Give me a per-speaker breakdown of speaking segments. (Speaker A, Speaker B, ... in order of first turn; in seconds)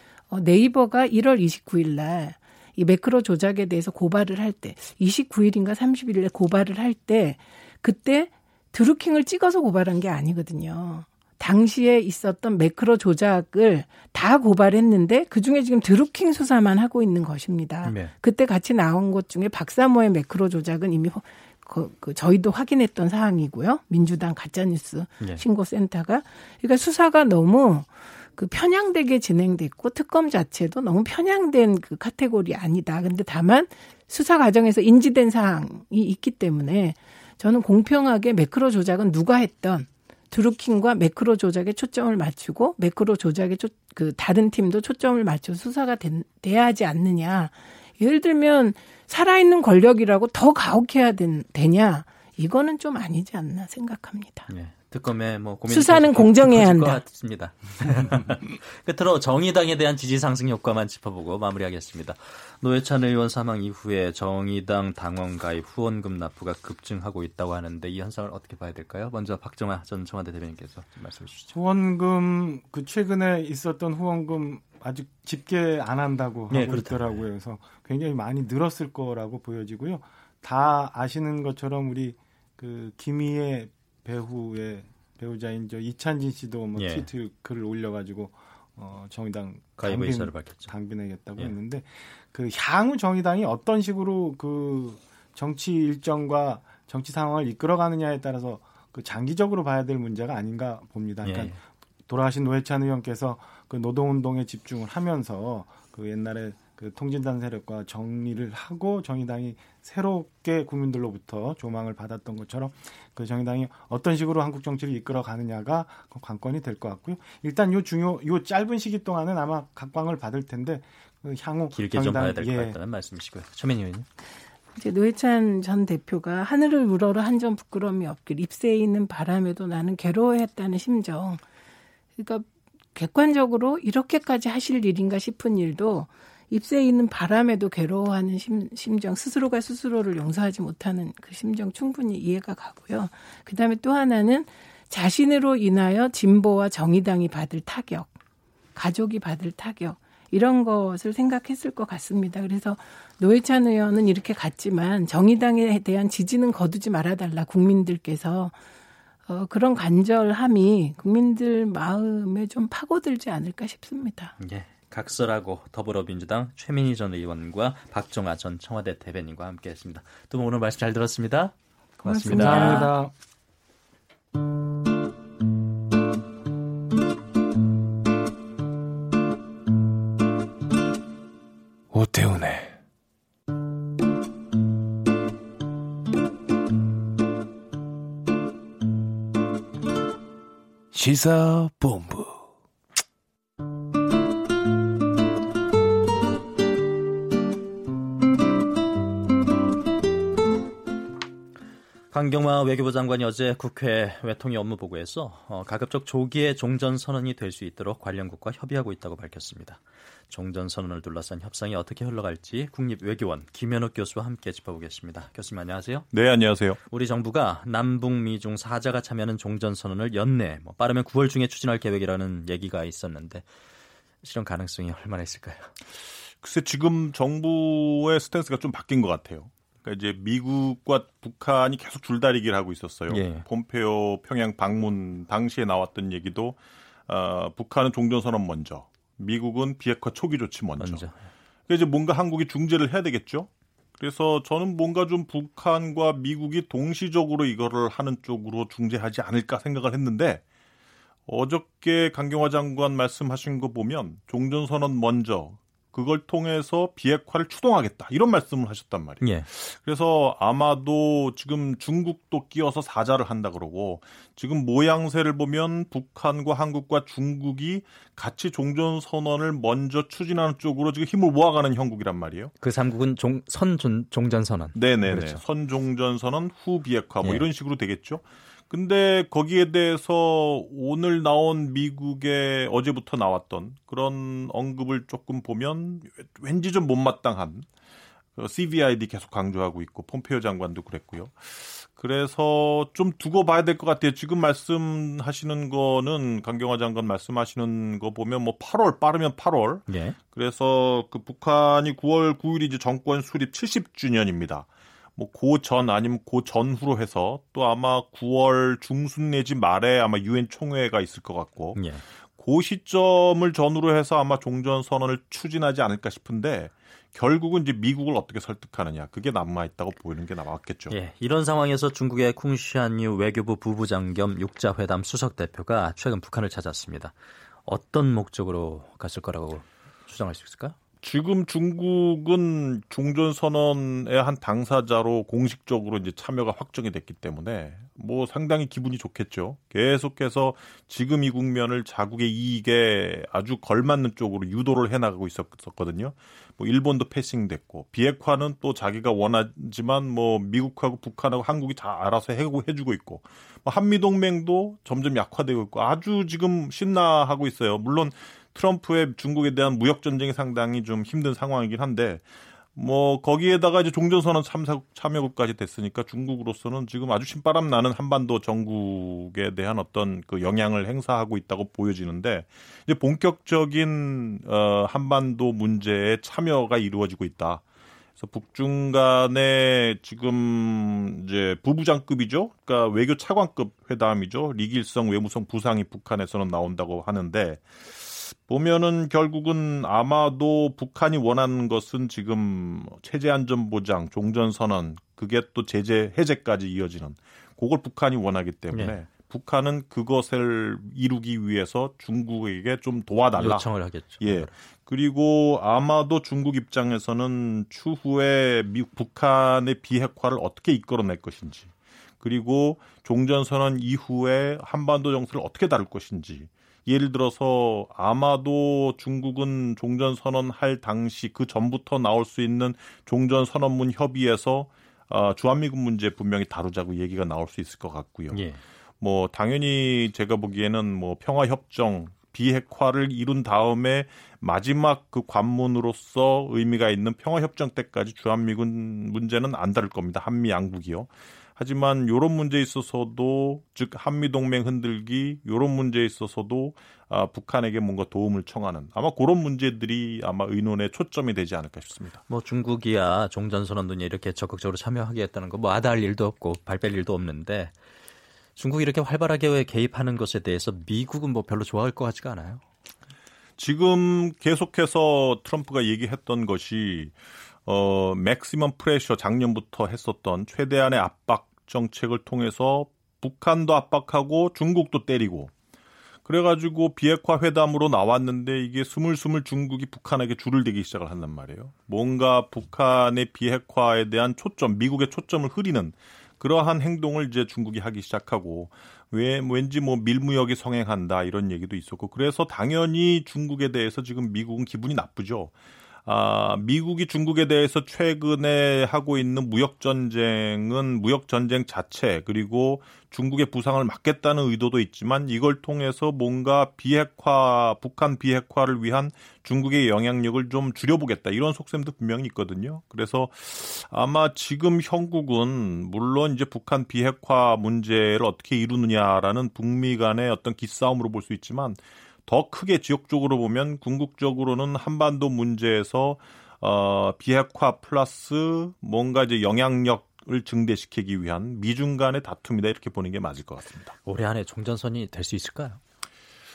Speaker A: 0.3-54.5, 55.7-57.0, 124.8-131.4, 132.2-148.1, 148.7-158.6, 159.2-164.3, 172.3-172.9
Speaker B: 17.8-18.1, 54.5-71.5, 76.5-77.2, 86.7-87.1, 89.8-90.7, 101.2-101.5, 121.7-124.1, 164.4-172.9, 202.1-216.1, 216.8-223.5, 224.2-225.7, 233.1-233.4, 240.8-241.2, 259.2-259.5, 272.6-275.4, 277.2-277.5, 299.9-300.2, 311.7-312.0, 320.9-330.8, 398.7-399.0, 403.4-404.5, 428.3-428.6, 452.3-457.7, 458.6-462.6, 534.0-535.8
Speaker C: 71.5-122.8, 172.0-173.1
Speaker D: 181.9-182.8, 190.9-192.4
Speaker E: 216.1-216.8, 226.4-241.1, 241.7-250.4, 251.3-272.5, 274.7-287.6, 288.4-311.8, 312.4-320.9, 331.0-362.2, 362.7-377.6, 378.2-428.4, 429.0-452.2, 463.6-467.1, 467.6-475.5, 476.2-495.5, 496.1-534.0